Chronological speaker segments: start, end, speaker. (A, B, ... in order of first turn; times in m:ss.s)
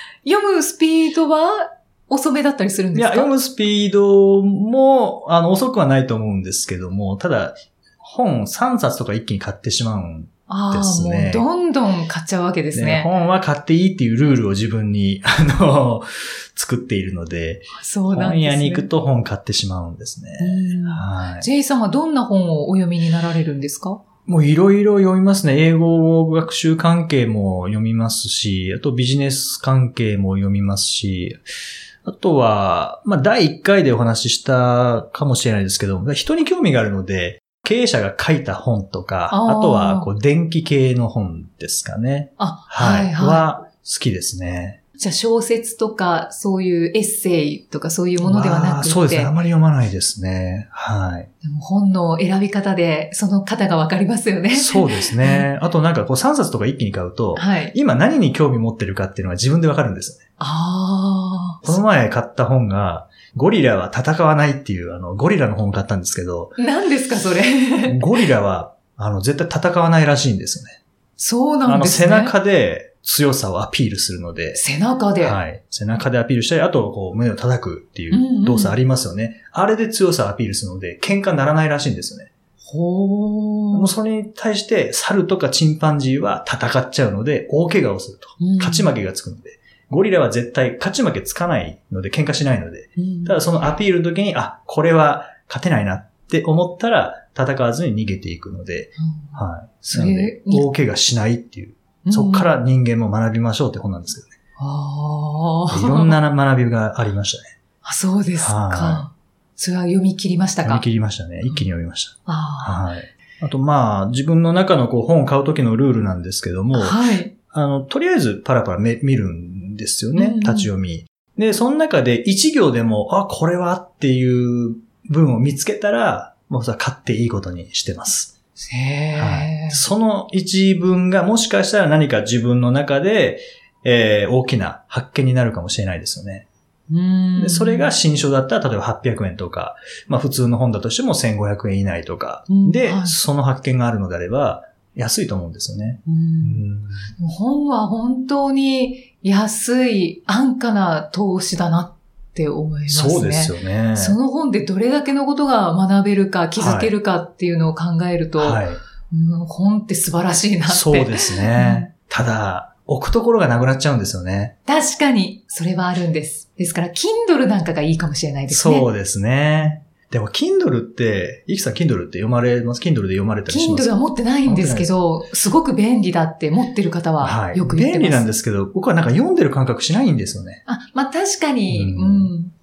0:00.2-0:03.3 A
0:03.0-0:11.5 B
0:10.5-0:13.1 A
0:12.7-0:21.5 B
0:17.7-0:18.9 A
0:20.4-0:24.0 A
0:24.3-0:31.4 B
0:32.0-0:44.8 B
0:39.3-0:40.1 A
0:42.4-0:43.5 A
0:45.0-0:49.4 A
0:48.2-0:51.3 B
0:51.4-0:55.5 A
0:54.5-1:00.2 B
0:57.4-0:57.7 A
1:00.4-1:01.8 A
1:01.6-1:06.6 B
1:06.6-1:08.0 A
1:07.8-1:10.8 B
1:11.2-1:12.3 A
1:11.6-1:14.6 B
1:14.5-1:15.4 A
1:15.2-1:22.3 B
1:18.1-1:18.8 A
1:22.7-1:23.9 A
1:23.7-1:44.3 B
1:28.4-1:28.9 A
1:33.0-1:33.4 A
1:39.0-1:40.7 A
1:42.0-1:42.5 A
1:44.6-1:46.2 A
1:45.7-1:47.5 B
1:47.8-1:50.8 A
1:48.4-1:49.1 B
1:50.6-2:08.3 B
1:52.3-1:52.8 A
1:56.7-1:57.3 A
2:00.2-2:00.7 A
2:08.6-2:09.8 A
2:09.2-2:16.5 B
2:16.9-2:17.9 A
2:17.4-2:27.1 B
2:22.5-2:23.2 A
2:26.1-2:26.6 A
2:27.2-2:41.9 A
2:32.9-2:34.2 B
2:36.6-2:36.9 B
2:38.4-2:38.8 B
2:40.7-2:44.5 B
2:44.6-2:48.9 A
2:48.5-2:54.9 B
2:53.5-2:58.3 A
2:57.2-3:00.6 B
3:00.7-3:02.5 A
3:01.7-3:02.3 B